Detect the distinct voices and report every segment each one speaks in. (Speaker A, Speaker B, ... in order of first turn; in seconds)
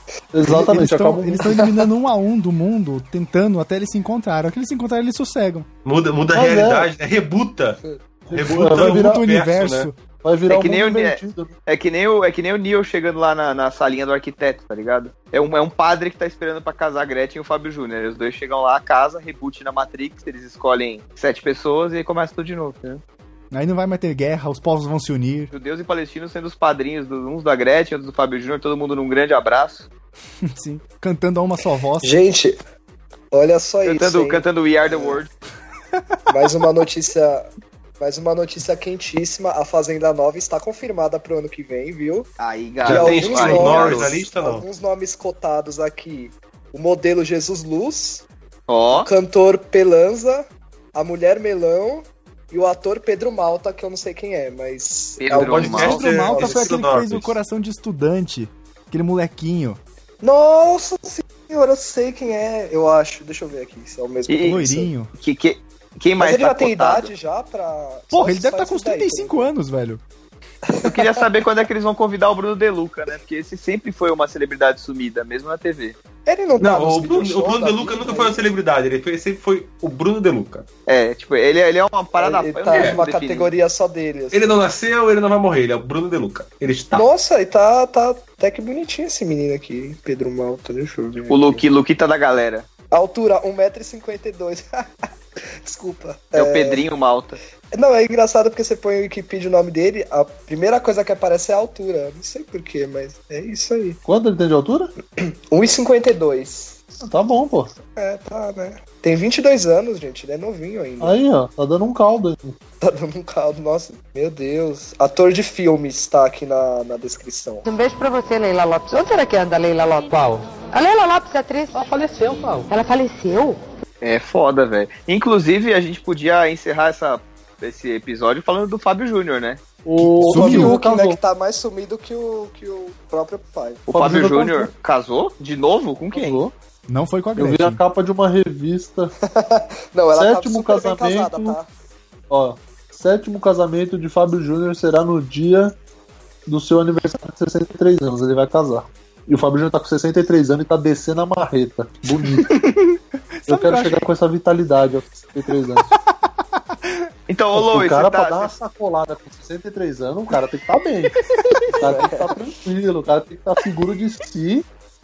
Speaker A: 0.3-1.6, 6.3-6.9, 8.3-9.3, 10.2-11.5, 104.0-104.9, 107.0-107.7, 111.0-112.6, 129.8-131.2, 133.9-134.7, 136.1-136.5, 137.3-139.1, 140.1-141.6, 142.3-145.8, 146.4-152.5, 153.5-155.9, 157.5-161.2, 161.8-164.7
Speaker B: 0.4-5.7, 8.8-9.9, 23.5-25.5, 30.5-32.2, 55.8-59.8, 64.4-65.1, 68.1-70.0, 130.0-130.8, 136.9-137.8, 153.4-154.0, 161.3-161.7
Speaker C: 5.8-9.9, 42.8-44.6, 55.3-57.4, 76.6-80.7, 82.7-83.0, 84.3-87.0
Speaker D: 10.5-23.0, 25.5-29.9, 33.8-35.3, 42.4-44.1, 48.7-49.1, 55.2-56.0, 64.3-64.6, 65.2-67.1, 70.8-76.0, 80.9-83.5, 91.3-92.7, 96.3-97.4, 124.0-129.6, 133.9-136.4, 157.3-158.5
Speaker E: 32.0-32.6, 33.3-35.2, 36.3-37.5, 38.0-42.3, 42.8-48.2, 48.9-56.8, 60.2-64.9, 66.2-69.5, 70.7-71.0, 76.2-78.4, 82.2-84.5, 86.9-91.6, 92.9-95.0, 95.6-96.8, 97.7-104.0, 105.2-106.8, 108.0-111.2, 112.8-117.7, 130.3-133.8, 139.3-141.7, 161.8-162.3
Speaker F: 117.6-123.6